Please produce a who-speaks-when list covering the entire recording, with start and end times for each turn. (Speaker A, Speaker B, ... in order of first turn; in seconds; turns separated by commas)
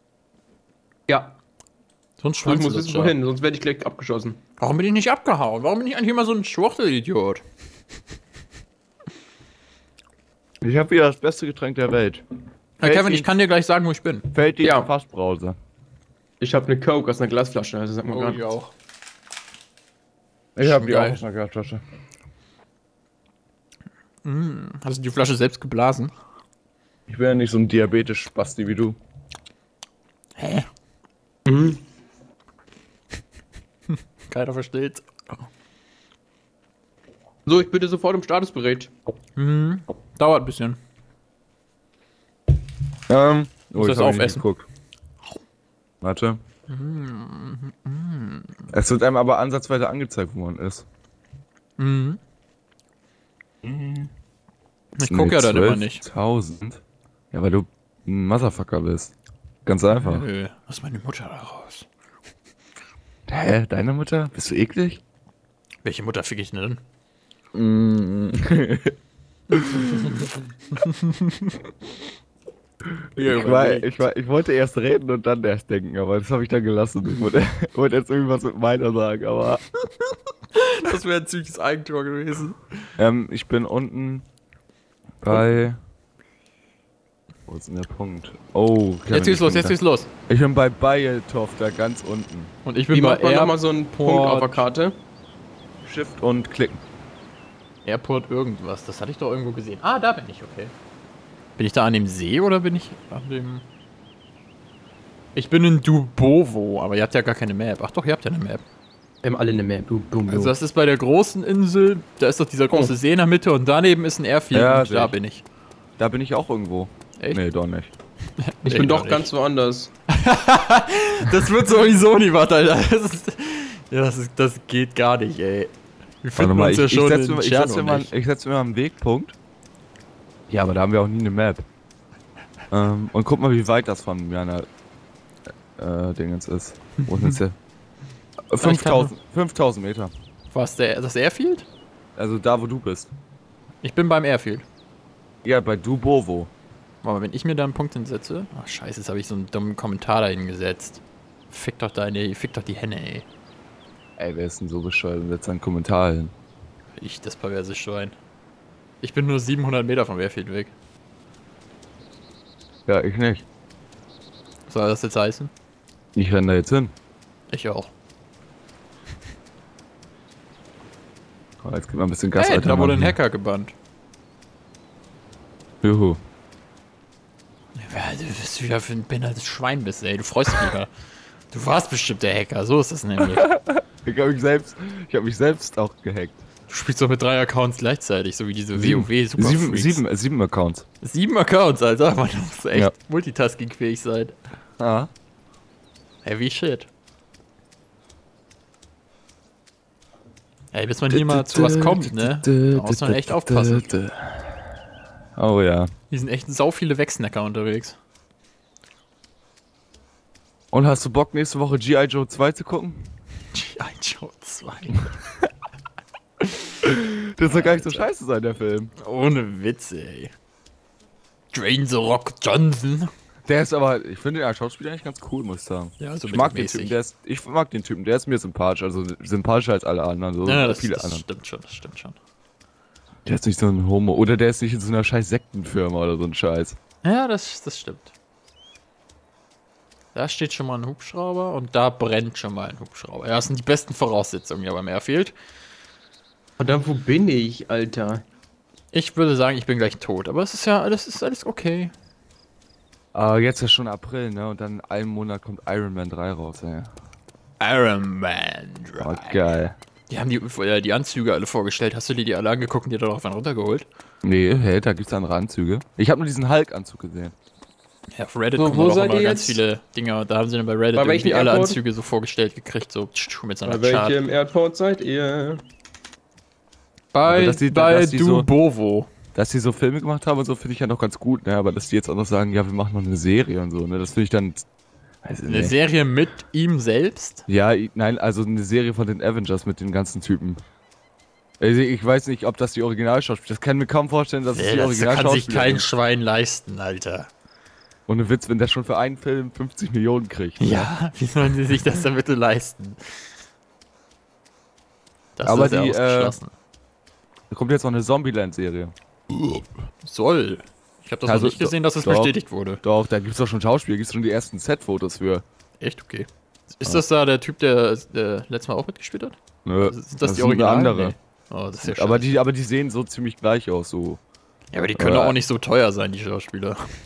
Speaker A: 1.1-1.4, Speaker B: 2.2-3.1, Speaker A: 2.4-4.4, Speaker B: 4.6-7.4, Speaker C: 10.6-12.2, Speaker B: 12.8-14.3, Speaker C: 12.8-13.3, Speaker C: 14.3-15.6, Speaker A: 14.6-14.9, Speaker A: 16.4-18.4, Speaker B: 18.1-18.7, Speaker C: 20.6-21.8, Speaker B: 20.6-21.2, Speaker B: 24.2-26.1, Speaker C: 27.1-28.9, Speaker B: 30.4-30.7, Speaker A: 31.4-31.8, Speaker B: 33.9-35.1, Speaker A: 37.5-38.9, Speaker B: 39.4-40.8, Speaker C: 43.1-44.7, Speaker B: 43.8-44.4, Speaker C: 46.0-46.4, Speaker B: 46.7-48.6, Speaker C: 48.7-50.8, Speaker B: 51.8-52.2, Speaker C: 53.6-54.1, Speaker B: 55.0-56.0, Speaker C: 55.1-59.1, Speaker C: 59.6-60.2, Speaker B: 59.9-61.9, Speaker C: 63.3-65.0, Speaker B: 65.8-66.8, Speaker C: 67.5-69.0, Speaker C: 69.5-70.1, Speaker B: 69.7-71.5, Speaker B: 73.2-74.0, Speaker C: 73.2-79.6, Speaker B: 80.5-82.6, Speaker C: 83.0-84.3, Speaker C: 85.2-85.8, Speaker C: 87.5-89.8, Speaker B: 89.1-90.1, Speaker C: 90.3-92.5, Speaker B: 92.6-94.7, Speaker A: 92.9-95.0, Speaker C: 95.8-96.8, Speaker B: 97.8-100.7, Speaker B: 101.6-103.6, Speaker B: 105.3-108.6, Speaker A: 109.2-110.5, Speaker B: 110.3-115.4, Speaker C: 114.5-115.1, Speaker C: 116.0-117.9, Speaker B: 118.4-119.3, Speaker A: 118.6-119.9, Speaker B: 120.1-128.1, Speaker C: 126.4-129.3, Speaker C: 130.5-131.6, Speaker C: 132.7-134.7, Speaker C: 135.8-137.6, Speaker C: 138.5-140.1, Speaker B: 138.6-139.1, Speaker B: 140.5-141.7, Speaker C: 142.2-143.1, Speaker B: 143.8-144.6, Speaker C: 145.4-146.5, Speaker B: 147.0-153.2, Speaker C: 154.2-156.3, Speaker B: 157.0-158.1, Speaker B: 159.0-160.7, Speaker C: 162.9-163.4, Speaker B: 164.7-165.5, Speaker C: 166.1-166.9, Speaker B: 167.5-167.9, Speaker C: 171.6-173.2, Speaker B: 172.3-173.7, Speaker C: 175.8-176.2, Speaker B: 177.7-180.9, Speaker B: 181.5-183.4, Speaker C: 183.3-186.4, Speaker B: 186.7-190.0, Speaker C: 188.7-190.8, Speaker B: 191.0-194.4, Speaker C: 194.8-195.1, Speaker B: 196.2-196.9, Speaker B: 200.7-203.9, Speaker C: 201.1-204.8, Speaker C: 205.3-205.9, Speaker B: 206.1-208.0, Speaker C: 210.7-213.1, Speaker B: 213.5-215.0, Speaker C: 216.8-218.9, Speaker B: 217.4-218.1, Speaker B: 219.0-220.3, Speaker B: 221.5-223.1, Speaker C: 223.5-231.2, Speaker B: 226.0-226.9, Speaker B: 230.4-232.2, Speaker C: 233.2-236.8, Speaker B: 237.0-238.1, Speaker B: 240.1-245.3, Speaker A: 246.6-248.2, Speaker B: 248.9-251.9, Speaker C: 253.1-256.9, Speaker B: 257.6-259.4, Speaker C: 259.0-259.8, Speaker B: 260.1-263.9, Speaker C: 264.2-267.3, Speaker B: 268.1-274.2, Speaker A: 268.6-269.6, Speaker A: 270.9-271.8, Speaker A: 273.6-275.6, Speaker B: 277.1-279.1, Speaker C: 277.2-278.5, Speaker C: 279.3-284.6, Speaker C: 285.2-285.7, Speaker B: 285.4-287.4, Speaker C: 287.5-290.6, Speaker C: 291.6-295.9, Speaker B: 294.5-297.3, Speaker C: 298.1-300.9, Speaker B: 300.6-303.2, Speaker B: 305.4-306.5, Speaker C: 305.4-306.4, Speaker C: 307.5-309.6, Speaker B: 310.0-312.8, Speaker C: 311.2-315.4, Speaker B: 315.8-322.3, Speaker C: 319.6-321.1, Speaker C: 321.8-324.2, Speaker B: 324.7-326.8, Speaker C: 324.9-325.4